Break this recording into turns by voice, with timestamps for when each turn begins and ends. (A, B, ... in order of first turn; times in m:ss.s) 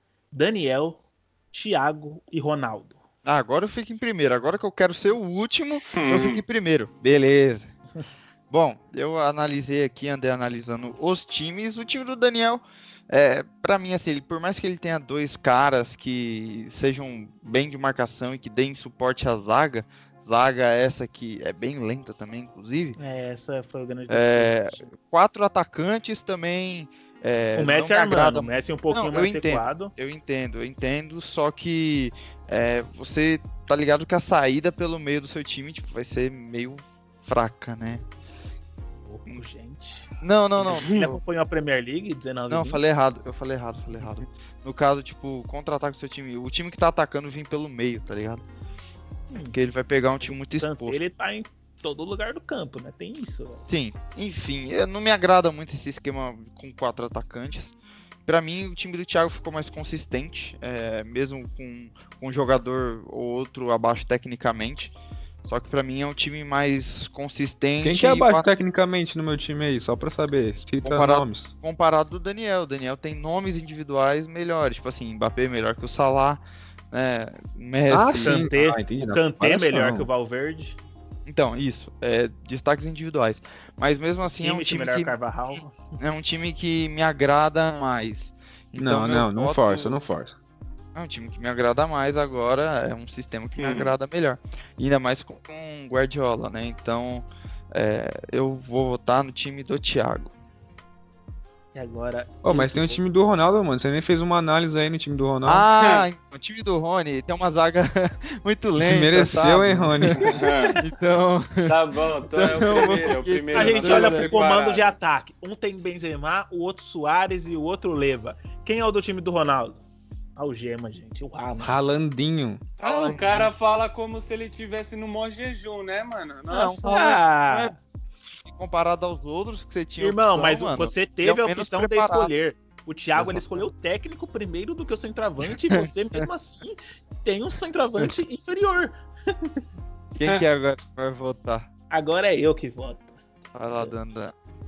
0:00.3-0:03.0 A
0:03.2-0:07.7 B
0:05.9-0:06.4 C
0:08.5-0:23.0 B
0:23.0-0:24.8 A
0:24.1-0:38.0 B
0:27.5-0:29.9 A
0:39.0-0:40.1 A
0:40.2-0:41.2 B
0:40.6-0:42.8 A
0:40.7-0:41.0 C
0:42.5-0:48.4 B
0:49.3-0:49.6 A
0:49.5-0:51.0 B
0:50.5-0:53.6 A
0:53.6-0:57.7 B
0:58.2-1:08.5 B
1:07.8-1:11.5 D
1:10.8-1:18.4 B
1:17.9-1:20.1 D
1:18.2-1:20.8 A
1:21.2-1:30.0 B
1:24.4-1:25.8 A
1:28.8-1:30.3 D
1:30.9-1:40.3 B
1:33.6-1:33.9 C
1:41.7-1:42.4 A
1:42.4-1:45.6 D
1:45.4-1:51.7 B
1:48.8-1:50.4 D
1:50.3-1:50.8 C
1:51.6-1:54.9 C
1:52.3-1:54.6 B
1:53.5-1:59.8 A
2:00.4-2:01.8 A
2:01.6-2:02.6 D
2:02.8-2:07.0 C
2:02.8-2:03.5 B
2:02.8-2:03.4 A
2:06.5-2:07.8 B
2:06.8-2:07.7 A
2:08.4-2:12.3 B
2:10.0-2:19.6 A
2:13.1-2:13.7 B
2:20.1-2:21.7 B
2:21.9-2:23.2 A
2:23.5-2:24.3 B